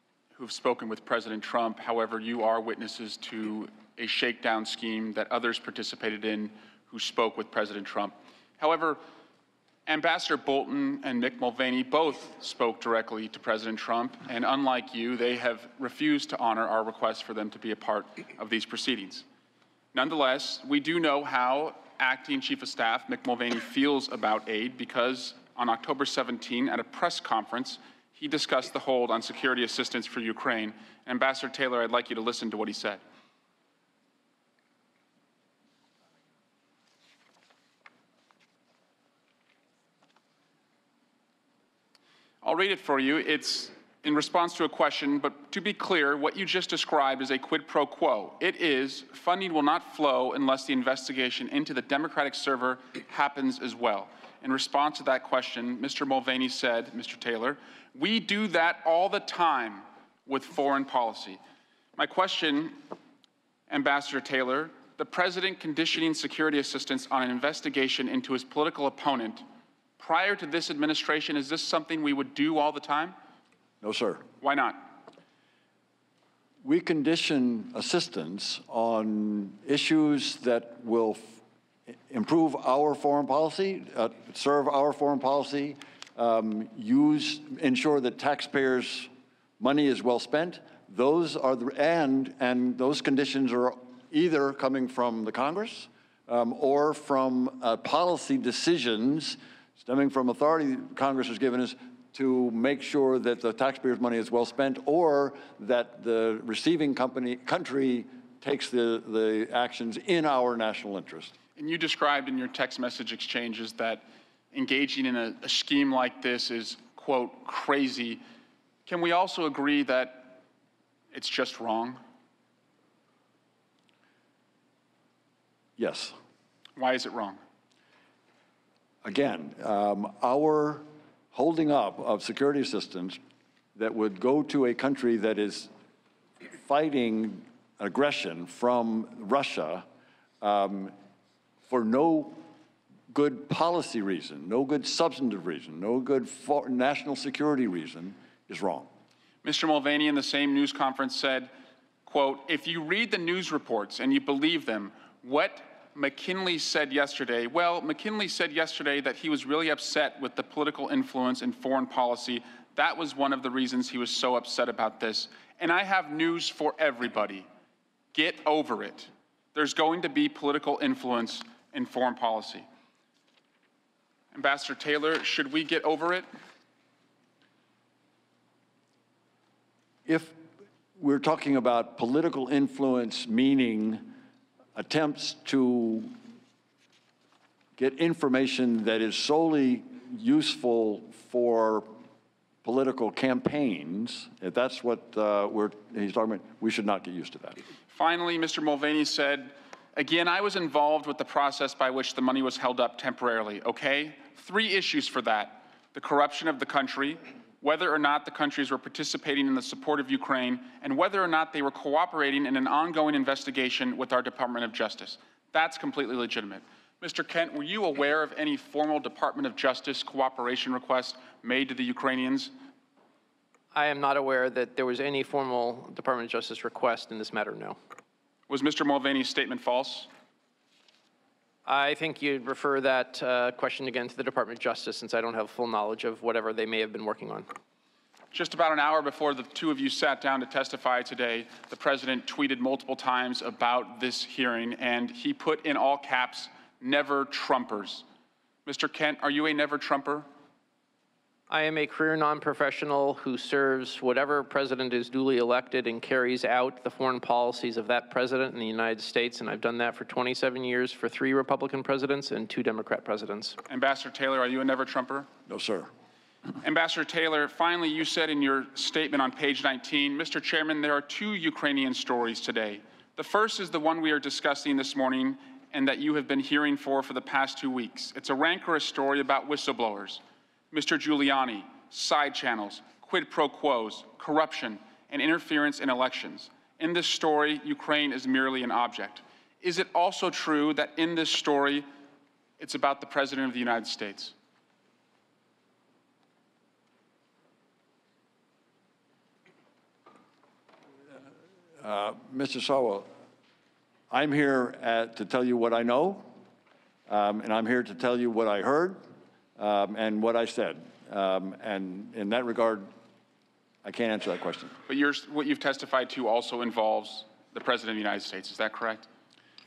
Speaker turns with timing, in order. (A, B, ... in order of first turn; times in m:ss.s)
0:00.4-0:09.0 A
0:09.9-0:19.2 A
0:19.9-0:33.0 A
0:42.4-1:01.4 A
1:02.0-1:02.8 A
1:03.7-1:09.4 A
1:10.0-1:13.1 A
1:13.8-1:14.2 B
1:14.4-1:14.9 A
1:16.6-1:21.4 B
1:22.1-1:29.1 B
1:29.6-1:51.3 B
1:51.6-1:58.2 A
1:58.8-2:00.4 A
2:01.1-2:02.0 A
2:05.8-2:06.1 B
2:06.8-2:07.4 A
2:09.0-2:13.2 B
2:13.8-2:15.7 B
2:16.6-2:19.8 B
2:20.4-2:20.9 B
2:21.7-2:22.4 B
2:23.1-2:28.9 B
2:29.4-2:31.5 A
2:32.0-2:47.5 A
2:48.1-2:52.6 A
2:54.3-2:56.2 A
3:00.0-3:00.3 B
3:01.0-3:04.1 B
3:04.7-3:06.1 B
3:07.8-3:11.8 B
3:12.6-3:17.6 B
3:17.9-3:42.5 A
3:43.7-3:47.8 C
3:48.5-3:50.1 A
3:51.6-3:57.4 C
3:58.3-4:08.0 A
4:08.6-4:10.2 A
4:11.5-4:23.6 C
4:23.7-4:25.3 A
4:25.5-4:25.9 B
4:26.6-4:51.8 A
4:52.6-4:54.3 A
5:01.8-5:03.1 B
5:04.1-5:06.2 B
5:07.1-5:09.0 B
5:09.6-5:12.9 B
5:13.8-5:14.8 B
5:14.9-5:19.1 A